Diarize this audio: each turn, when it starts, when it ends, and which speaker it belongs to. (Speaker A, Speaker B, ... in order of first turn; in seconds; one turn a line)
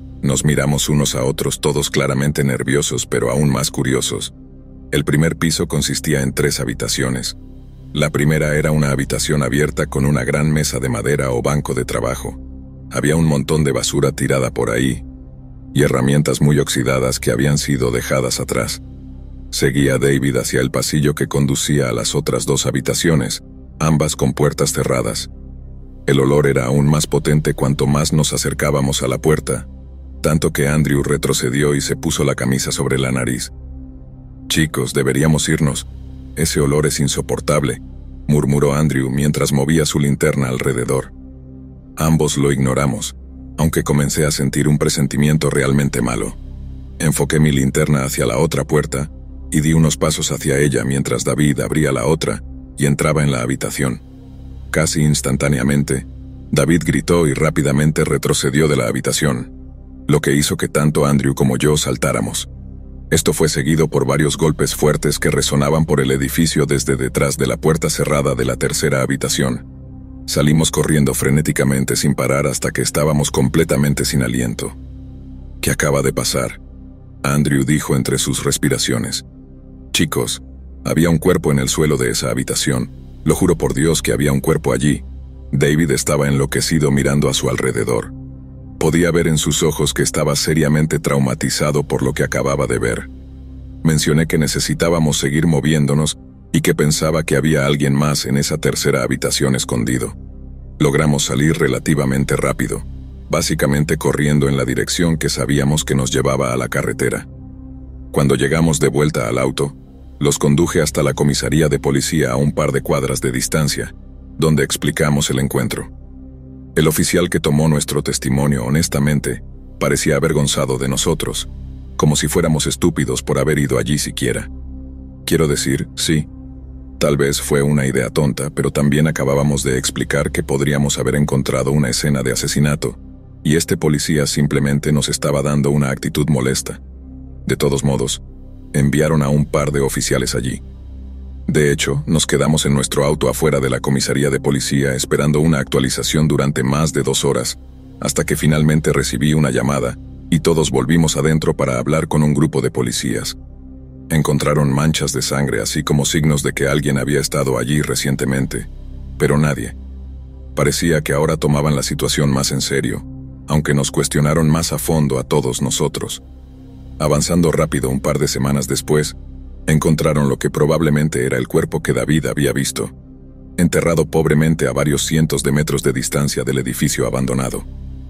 Speaker A: 0.2-4.3
Speaker A: 4.9-7.4
Speaker A: 7.9-12.4
Speaker A: 12.9-15.1
Speaker A: 15.7-18.8
Speaker A: 19.5-25.3
Speaker A: 26.1-29.7
Speaker A: 30.2-33.5
Speaker A: 34.5-41.1
Speaker A: 42.0-46.4
Speaker A: 47.0-54.0
Speaker A: 54.7-59.5
Speaker A: 60.1-62.5
Speaker A: 63.1-69.7
Speaker A: 70.3-74.8
Speaker A: 75.6-76.6
Speaker A: 77.2-79.2
Speaker A: 79.9-88.1
Speaker A: 88.8-93.1
Speaker A: 93.8-100.2
Speaker A: 100.8-107.3
Speaker A: 108.1-115.9
Speaker A: 116.8-124.5
Speaker A: 125.3-126.3
Speaker A: 127.0-136.8
Speaker A: 137.5-138.2
Speaker A: 138.7-140.6
Speaker A: 141.5-153.4
Speaker A: 154.1-159.8
Speaker A: 160.6-166.2
Speaker A: 167.0-169.2
Speaker A: 169.7-172.9
Speaker A: 173.6-177.7